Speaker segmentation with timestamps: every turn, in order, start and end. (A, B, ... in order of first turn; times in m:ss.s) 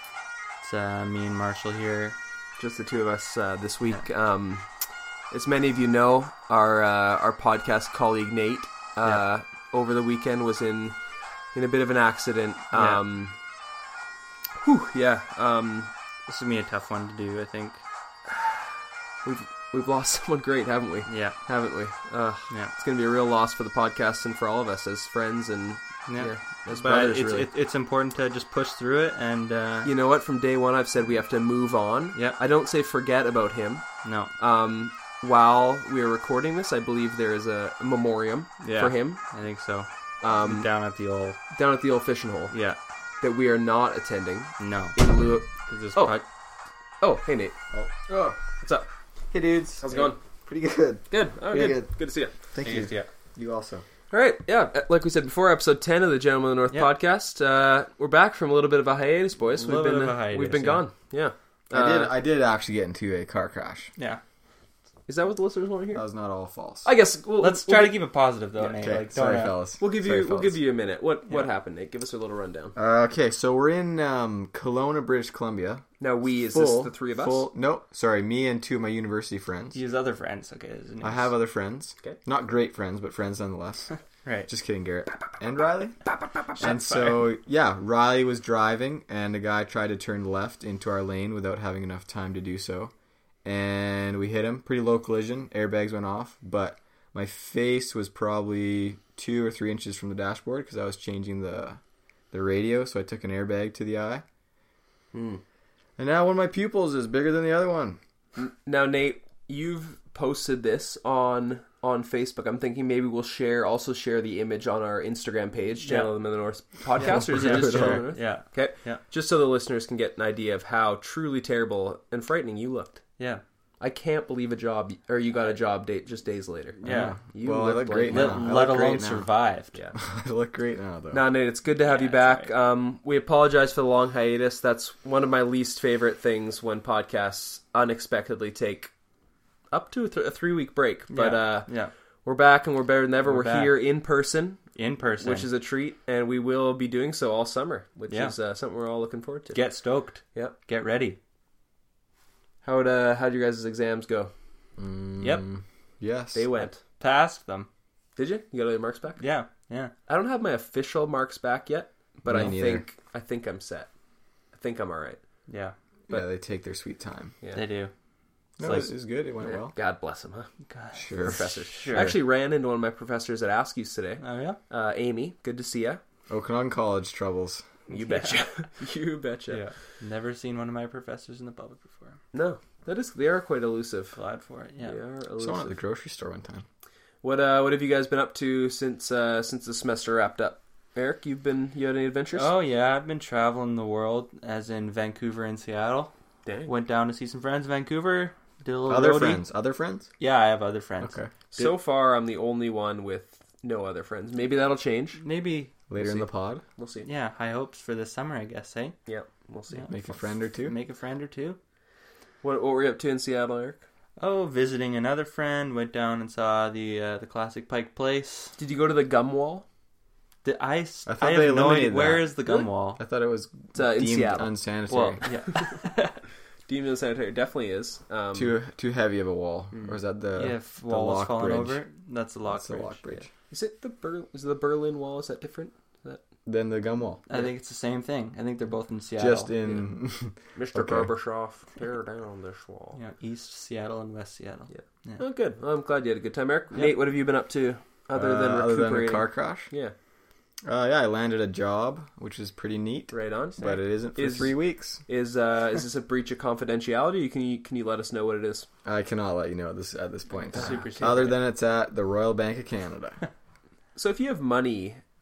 0:00.6-0:02.2 A
0:02.6-0:04.7 B
0:05.3-0:11.0 B
0:11.5-0:13.4 B
0:12.7-0:13.0 A
0:14.6-0:15.9 B
0:16.3-0:17.8 A
0:18.3-0:18.6 B
0:19.2-0:27.5 B
0:21.1-0:21.4 A
0:26.1-0:29.9 A
0:29.8-0:39.2 B
0:34.0-0:34.3 A
0:38.6-0:41.4 A
0:40.2-0:40.7 B
0:41.5-0:42.6 B
0:42.5-0:42.8 A
0:43.2-0:46.2 B
0:44.6-0:46.2 A
0:47.0-0:47.6 B
0:47.7-0:48.4 C
0:48.6-0:48.9 B
0:49.3-0:52.0 C
0:49.8-0:50.2 B
0:51.1-0:52.3 B
0:52.5-0:53.8 C
0:52.6-0:53.1 A
0:54.1-1:02.1 B
0:59.6-1:00.8 A
1:01.7-1:03.9 C
1:05.1-1:06.0 B
1:05.9-1:06.9 C
1:06.8-1:08.0 B
1:07.4-1:09.6 A
1:08.8-1:10.6 C
1:09.8-1:12.8 B
1:12.8-1:15.8 C
1:16.0-1:17.5 B
1:16.4-1:19.8 C
1:19.7-1:21.3 A
1:21.0-1:23.9 C
1:24.2-1:24.5 A
1:24.5-1:26.0 C
1:26.6-1:27.3 A
1:26.6-1:32.9 C
1:33.4-1:41.8 C
1:42.3-1:44.2 C
1:45.1-1:45.4 B
1:46.0-1:48.0 C
1:48.4-2:03.0 B
1:55.8-1:56.1 A
1:57.0-1:58.0 C
1:57.3-1:59.0 A
2:03.8-2:08.4 B
2:06.8-2:07.2 A
2:06.8-2:09.3 C
2:08.1-2:09.8 A
2:10.0-2:11.3 C
2:11.1-2:18.9 B
2:11.8-2:12.5 A
2:19.7-2:21.7 B
2:21.1-2:21.9 A
2:22.2-2:24.6 B
2:23.2-2:23.8 A
2:24.8-2:25.5 A
2:25.2-2:29.6 B
2:28.1-2:28.3 A
2:29.5-2:31.2 A
2:32.6-2:34.3 B
2:34.8-2:36.5 C
2:36.3-2:36.8 B
2:36.6-2:37.7 A
2:38.2-2:39.2 B
2:39.2-2:39.9 A
2:40.1-2:43.9 B
2:42.3-2:42.9 C
2:44.5-2:45.2 B
2:45.5-2:45.8 A
2:46.1-2:47.3 C
2:47.5-2:47.9 A
2:48.6-2:49.7 C
2:48.6-2:48.9 A
2:49.4-2:50.5 B
2:50.6-2:52.1 A
2:51.0-2:52.2 C
2:51.3-2:56.0 B
2:54.2-2:54.6 A
2:56.3-2:57.7 C
2:57.9-2:58.4 A
2:57.9-2:59.6 B
2:59.5-3:02.2 A
3:02.3-3:04.2 B
3:04.2-3:05.0 A
3:04.8-3:05.8 B
3:05.4-3:06.6 C
3:07.2-3:12.5 B
3:12.3-3:16.1 A
3:16.4-3:16.7 B
3:16.7-3:19.4 A
3:18.9-3:20.1 C
3:20.2-3:21.7 A
3:21.0-3:21.3 C
3:21.5-3:25.2 B
3:25.2-3:25.7 A
3:25.9-3:26.6 C
3:26.0-3:27.1 B
3:27.0-3:29.0 A
3:29.1-3:30.2 B
3:29.9-3:30.7 C
3:30.6-3:31.6 A
3:32.4-3:33.8 B
3:34.2-3:38.6 A
3:38.6-3:39.6 B
3:40.4-3:43.0 A
3:41.1-3:42.4 C
3:43.0-3:45.2 C
3:43.7-3:44.5 B
3:44.9-3:46.2 A
3:45.3-3:45.8 B
3:46.7-3:48.6 B
3:48.3-3:51.8 C
3:49.7-3:50.0 B
3:50.4-3:53.0 A
3:52.5-3:53.3 C
3:53.1-3:56.2 B
3:56.5-3:57.2 C
3:57.3-3:59.5 A
3:59.2-4:01.1 C
4:00.6-4:03.0 B
4:02.9-4:05.2 A
4:04.7-4:09.9 B
4:08.1-4:09.7 C
4:10.7-4:15.0 C
4:13.1-4:18.7 B
4:18.8-4:23.2 C
4:20.5-4:21.4 A
4:20.5-4:21.1 B
4:24.0-4:25.0 B